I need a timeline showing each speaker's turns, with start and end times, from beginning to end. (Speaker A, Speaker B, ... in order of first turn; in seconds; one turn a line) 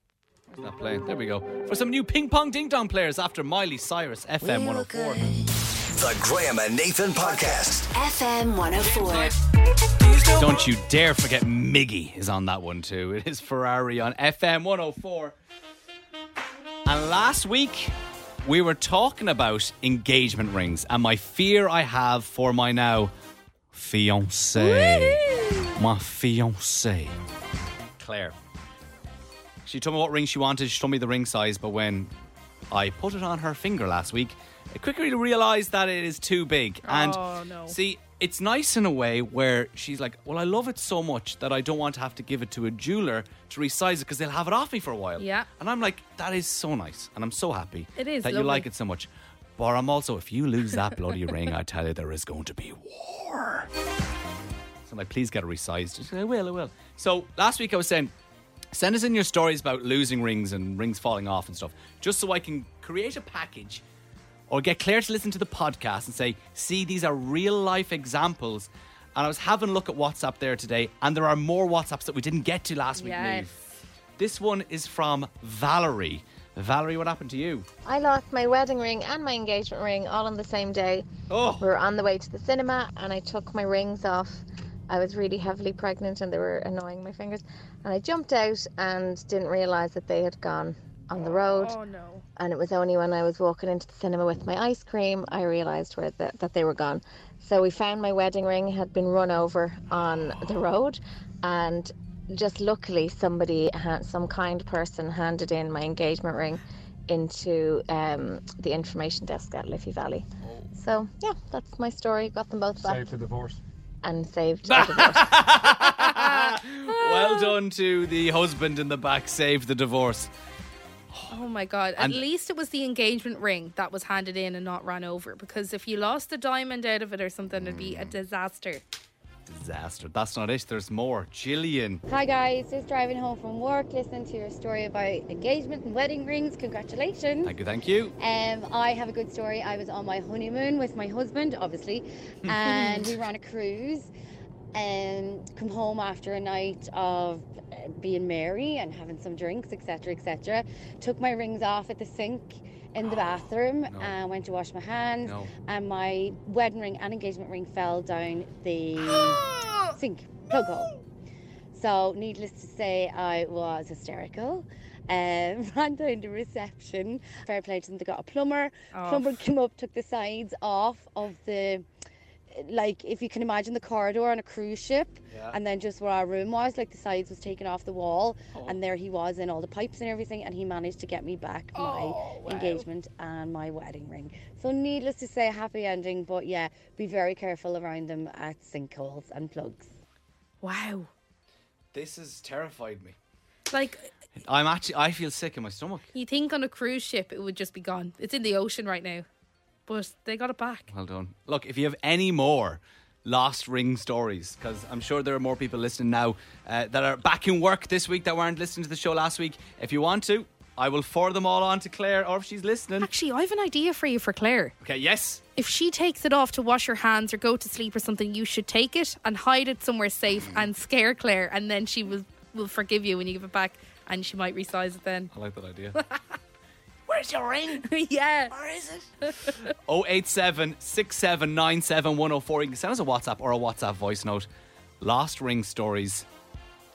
Speaker A: 0.5-5.2
Speaker B: 4.4-5.4
Speaker C: 5.9-7.9
Speaker B: 7.9-9.4
Speaker A: 8.8-9.4
Speaker A: 10.0-15.4
Speaker A: 16.9-23.1
Speaker A: 23.7-27.1
Speaker D: 24.7-25.7
Speaker A: 28.0-28.4
Speaker A: 29.6-32.1
Speaker A: 32.7-53.7
Speaker D: 36.9-37.8
Speaker D: 45.2-45.5
Speaker D: 48.0-48.7
Speaker A: 54.9-58.1
Speaker A: 58.7-63.8
Speaker A: 64.5-73.6
Speaker D: 73.0-73.5
Speaker A: 74.2-77.7
Speaker E: 77.9-81.1
Speaker A: 81.3-81.7
Speaker E: 81.6-91.8
Speaker D: 91.5-92.2
Speaker E: 92.4-113.4
Speaker A: 100.0-100.6
Speaker A: 110.4-110.7
Speaker E: 114.0-115.4
Speaker A: 114.7-120.3
Speaker D: 115.7-117.5
Speaker A: 121.1-121.4
Speaker D: 121.3-128.8
Speaker A: 122.0-122.2
Speaker A: 127.6-128.1
Speaker A: 129.5-132.0
Speaker F: 132.1-137.6
Speaker A: 137.4-138.2
Speaker F: 138.2-144.1
Speaker F: 144.7-160.9
Speaker A: 153.9-154.2
Speaker A: 155.2-155.5
Speaker D: 159.5-159.8
Speaker F: 161.7-171.9
Speaker D: 168.9-169.4
Speaker F: 172.5-189.9
Speaker A: 175.3-175.6
Speaker A: 178.5-178.8
Speaker D: 181.8-182.9
Speaker D: 190.6-191.1
Speaker A: 191.9-193.2
Speaker D: 193.7-194.1
Speaker A: 194.4-196.1
Speaker D: 196.1-199.2
Speaker D: 199.9-200.9
Speaker A: 200.9-213.1
Speaker D: 213.0-214.7
Speaker A: 214.8-215.4
Speaker D: 215.6-225.3
Speaker A: 225.3-226.0
Speaker D: 225.9-226.4
Speaker A: 227.1-227.9
Speaker D: 227.8-228.6
Speaker A: 228.5-229.1
Speaker D: 229.2-229.7
Speaker A: 229.8-234.5
Speaker A: 235.0-236.3